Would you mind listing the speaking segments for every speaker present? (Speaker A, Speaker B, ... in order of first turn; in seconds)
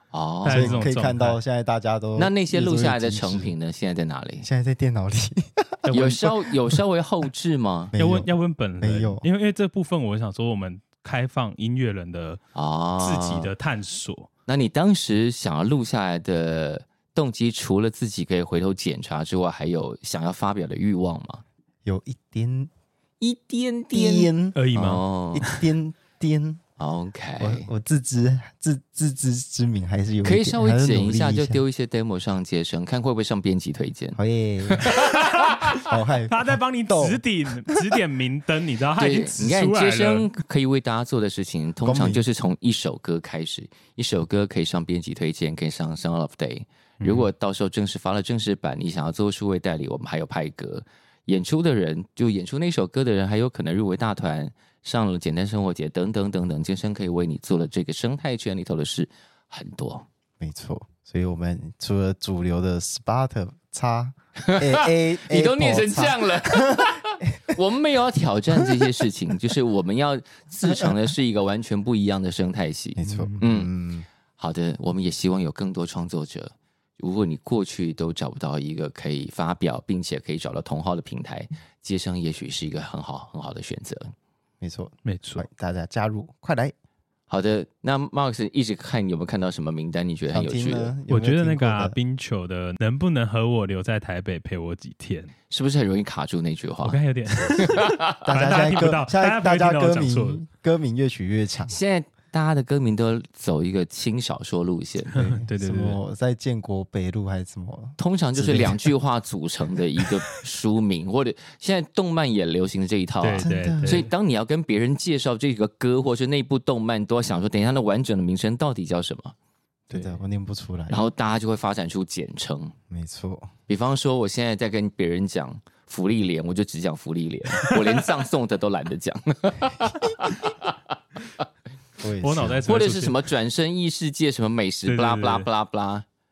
Speaker A: 0.1-0.8, 2.2-4.5, 5.9-7.9, 12.6-13.5, 14.5-21.4, 23.2-25.5, 26.8-27.7, 30.2-34.2, 34.7-35.1, 39.0-60.1, 64.5-73.7, 74.4-84.1, 87.3-91.0, 95.5-97.0, 97.6-98.3, 101.7-105.2, 108.0-119.3, 120.9-122.7, 123.7-130.7, 132.7-136.1
Speaker B: 0.4-1.4, 5.8-6.4, 8.0-12.4, 13.0-14.3, 24.6-25.7, 34.9-40.3, 47.0-47.3, 73.0-73.5, 85.0-85.5, 91.1-95.3, 96.8-100.4, 105.1-106.0, 113.2-114.1, 119.9-120.2, 132.2-133.2, 134.8-135.5
Speaker C: 0.5-3.5, 4.4-5.9, 7.9-9.2, 21.9-22.7, 23.9-24.6, 25.3-26.6, 27.4-31.6, 34.2-34.9, 35.8-38.0, 41.8-42.2, 60.4-66.9, 70.6-71.0, 73.0-74.1, 84.6-86.7, 90.3-92.0, 98.3-101.8, 105.2-108.9, 113.4-114.1, 119.9-121.0, 122.9-123.5, 132.0-132.8